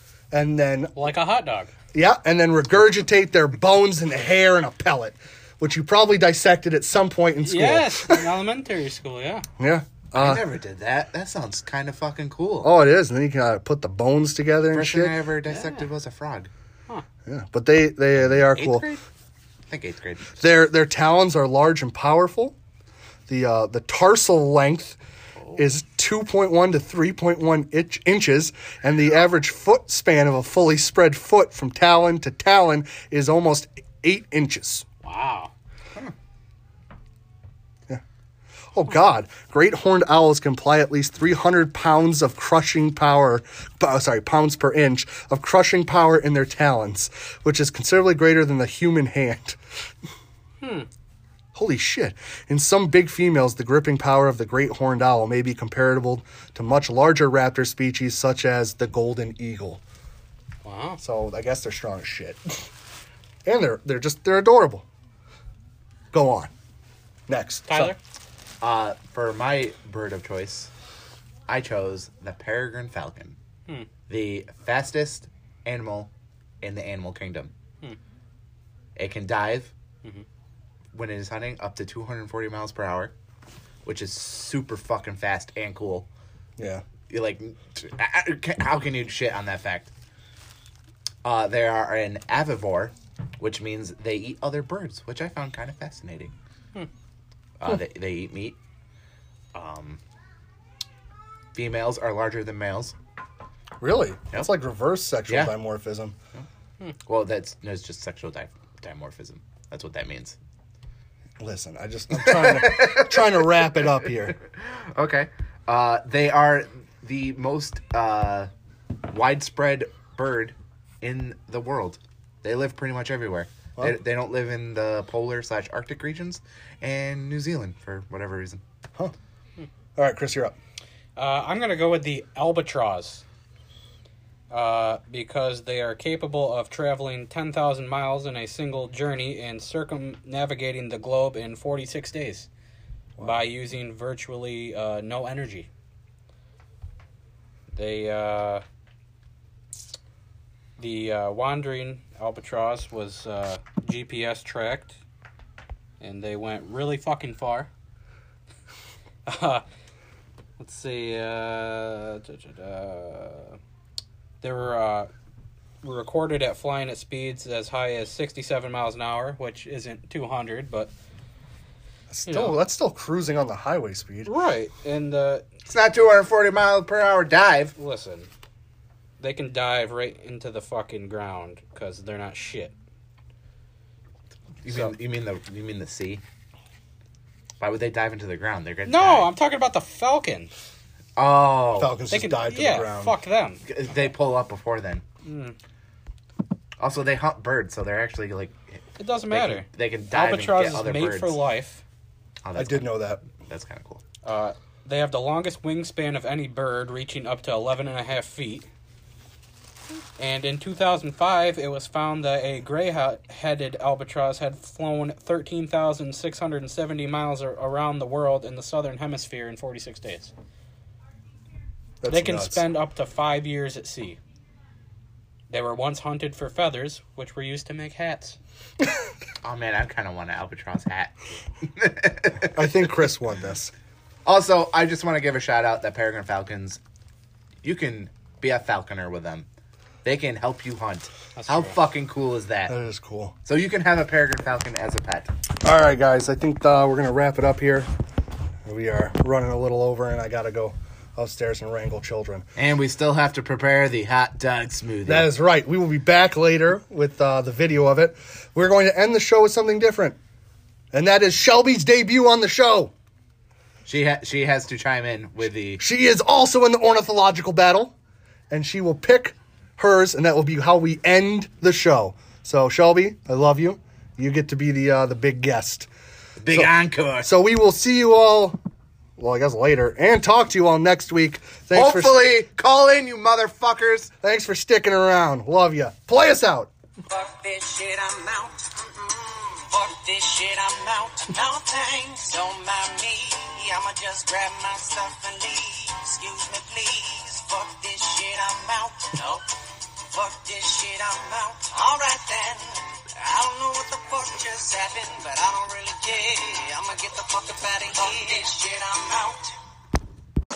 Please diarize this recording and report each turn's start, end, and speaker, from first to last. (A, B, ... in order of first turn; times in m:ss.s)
0:00.3-0:00.9 A
0:01.0-0:01.7 B
0:01.9-0:08.3 A
0:07.4-0:09.4 B
0:09.6-0:10.4 A
0:10.2-0:12.7 C
0:12.6-0:15.2 A
0:14.7-0:16.5 C
0:15.5-0:15.9 B
0:17.2-0:18.9 A
0:18.5-0:19.0 B
0:19.7-0:20.4 C
0:20.4-0:22.6 A
0:23.3-0:25.0 A
0:25.6-0:34.9 A
0:35.0-0:35.5 B
0:38.7-0:49.6 A
0:50.6-0:50.9 B
0:51.5-0:59.8 A
1:00.6-1:01.0 B
1:01.0-1:02.6 A
1:03.4-1:04.8 A
1:06.1-1:06.5 A
1:07.3-1:08.0 A
1:07.7-1:08.0 B
1:08.6-1:10.7 C
1:11.5-1:13.4 C
1:14.1-1:16.1 C
1:16.6-1:17.5 C
1:19.0-1:19.7 C
1:20.9-1:23.1 C
1:23.8-1:26.1 C
1:26.6-1:26.8 A
1:27.1-1:29.9 C
1:31.2-1:36.3 C
1:37.6-1:38.6 C
1:39.5-1:40.0 C
1:41.5-1:42.9 C
1:43.8-1:46.2 A
1:45.3-1:45.5 C
1:47.0-1:50.4 C
1:51.4-1:54.4 A
1:52.1-1:53.2 C
1:54.5-1:58.5 C
1:59.1-2:08.6 C
2:10.0-2:10.6 A
2:11.2-2:13.2 B
2:14.5-2:22.5 B
2:23.2-2:25.7 B
2:27.7-2:28.6 B
2:30.8-2:34.9 B
2:36.0-2:37.7 B
2:39.2-2:39.6 B
2:40.6-2:43.6 B
2:44.4-2:45.1 B
2:45.8-2:50.9 B
2:52.1-2:54.3 A
2:52.3-2:52.6 B
2:54.2-2:55.4 B
2:55.6-2:57.7 C
2:57.8-2:58.3 B
2:59.2-3:02.7 B
3:04.6-3:06.2 C
3:04.7-3:04.9 B
3:07.6-3:09.3 C
3:08.9-3:10.5 B
3:11.2-3:12.0 C
3:11.8-3:13.1 A
3:12.1-3:13.6 B
3:13.6-3:15.0 C
3:15.2-3:15.6 B
3:16.8-3:21.4 C
3:19.0-3:21.8 B
3:22.4-3:24.0 C
3:22.6-3:23.2 A
3:24.2-3:28.7 B
3:30.2-3:40.3 B
3:42.0-3:42.7 A
3:42.1-3:44.2 B
3:45.5-3:48.4 B
3:49.4-3:52.7 C
3:52.5-3:53.7 A
3:54.2-3:56.8 C
3:57.6-3:59.5 C
4:00.0-4:02.7 C
4:01.4-4:01.7 B
4:02.7-4:03.3 A
4:03.4-4:05.3 C
4:05.6-4:07.9 A
4:08.6-4:12.4 A
4:12.6-4:15.3 C
4:15.0-4:20.2 A
4:20.9-4:22.9 A
4:23.8-4:25.8 C
4:25.8-4:27.9 A
4:28.5-4:35.9 A
4:36.4-4:37.3 C
4:36.5-4:38.6 A
4:39.2-4:42.3 A
4:41.7-4:44.1 C
4:44.2-4:46.7 A
4:47.1-4:59.4 D
5:00.1-5:09.5 D